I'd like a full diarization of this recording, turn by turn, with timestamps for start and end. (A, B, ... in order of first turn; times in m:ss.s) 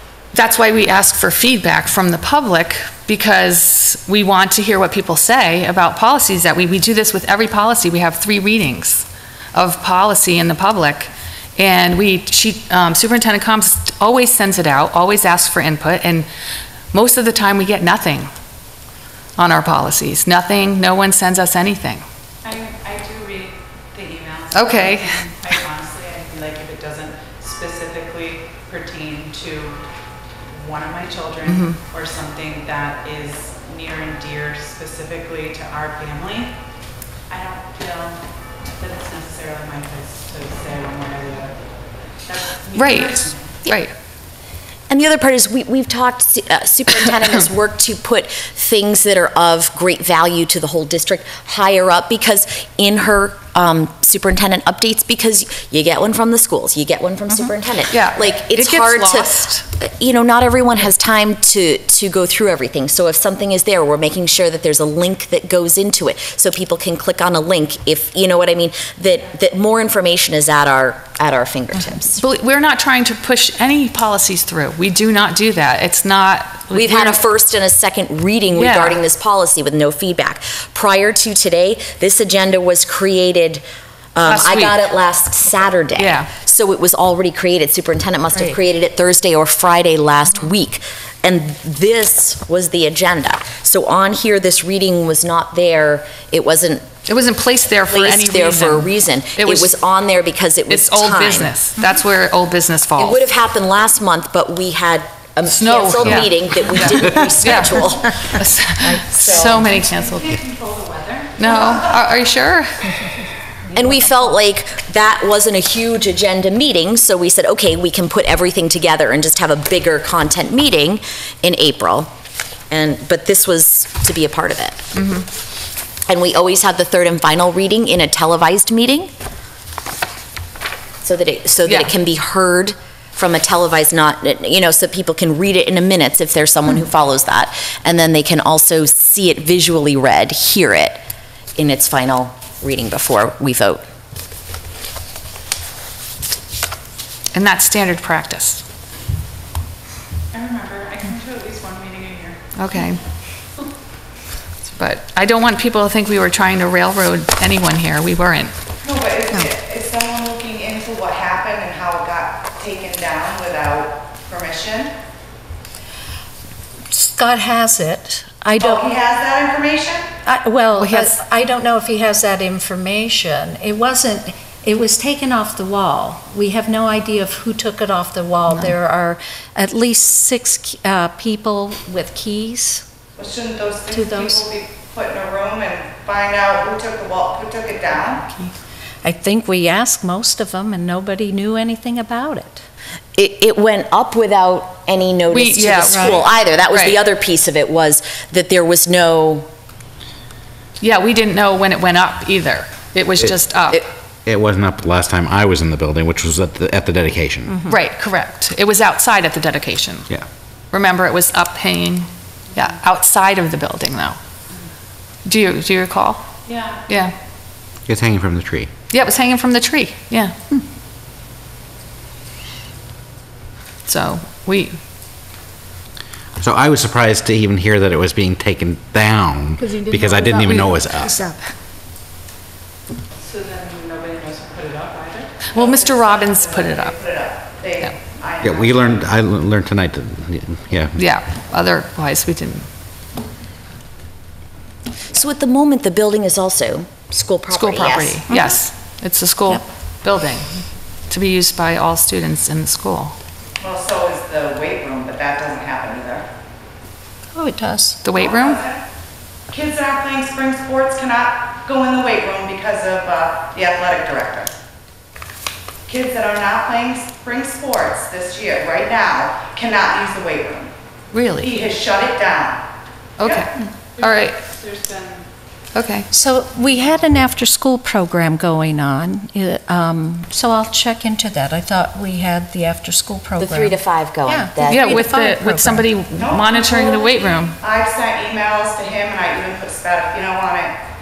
0:00.3-0:16.3 A
0:16.9-0:18.3 A
0:19.4-0:22.0 A
0:22.4-0:29.8 B
0:24.5-0:25.3 A
0:30.5-0:36.5 B
0:31.5-0:31.8 A
0:37.3-0:38.2 B
0:38.8-0:41.5 B
0:42.3-0:43.5 B
0:42.7-0:43.9 A
0:44.9-1:12.2 C
0:57.9-0:59.6 A
1:12.2-1:17.2 A
1:16.7-1:23.6 C
1:18.6-1:19.0 A
1:24.2-1:36.8 C
1:24.2-1:24.8 A
1:26.0-1:26.3 A
1:37.1-1:39.7 A
1:37.9-1:41.6 C
1:40.7-1:43.2 A
1:43.0-1:49.8 C
1:45.5-1:50.4 A
1:49.6-1:51.7 B
1:51.4-1:52.9 A
1:53.7-2:02.1 C
2:02.7-2:04.9 C
2:05.0-2:05.3 A
2:06.1-2:09.1 C
2:11.0-2:21.0 C
2:11.7-2:11.9 A
2:21.6-2:23.8 C
2:27.3-2:28.6 A
2:30.3-2:32.4 B
2:32.6-2:33.0 A
2:34.7-2:38.5 A
2:38.8-2:44.9 B
2:46.9-2:48.9 D
2:48.6-2:50.1 B
2:50.2-3:02.8 D
2:50.8-2:51.2 A
3:03.2-3:08.2 B
3:03.9-3:04.4 D
3:09.0-3:12.6 D
3:13.2-3:19.5 C
3:15.3-3:17.0 A
3:15.8-3:16.2 D
3:20.8-3:23.8 A
3:24.3-3:27.6 E
3:27.7-3:30.1 A
3:30.7-3:34.2 A
3:35.3-3:36.2 A
3:36.9-3:37.1 A
3:37.9-3:38.7 E
3:38.9-3:40.4 A
3:43.8-3:44.8 A
3:46.4-3:51.3 E
3:49.6-3:51.4 D
3:53.3-3:59.1 B
3:55.5-3:57.0 A
3:58.4-4:01.0 E
4:01.0-4:02.7 A
4:05.1-4:08.2 C
4:07.5-4:13.2 A
4:08.3-4:08.6 D
4:13.6-4:16.2 B
4:17.4-4:18.0 D
4:18.0-4:18.6 A
4:18.2-4:18.8 B
4:19.5-4:24.5 B
4:25.9-4:30.7 B
4:31.1-4:31.7 A
4:31.4-4:32.6 B
4:33.2-4:34.4 A
4:34.4-4:35.2 B
4:35.7-4:36.1 A
4:36.1-4:45.9 D
4:43.4-4:45.0 C
4:44.6-4:47.6 A
4:46.2-4:50.7 B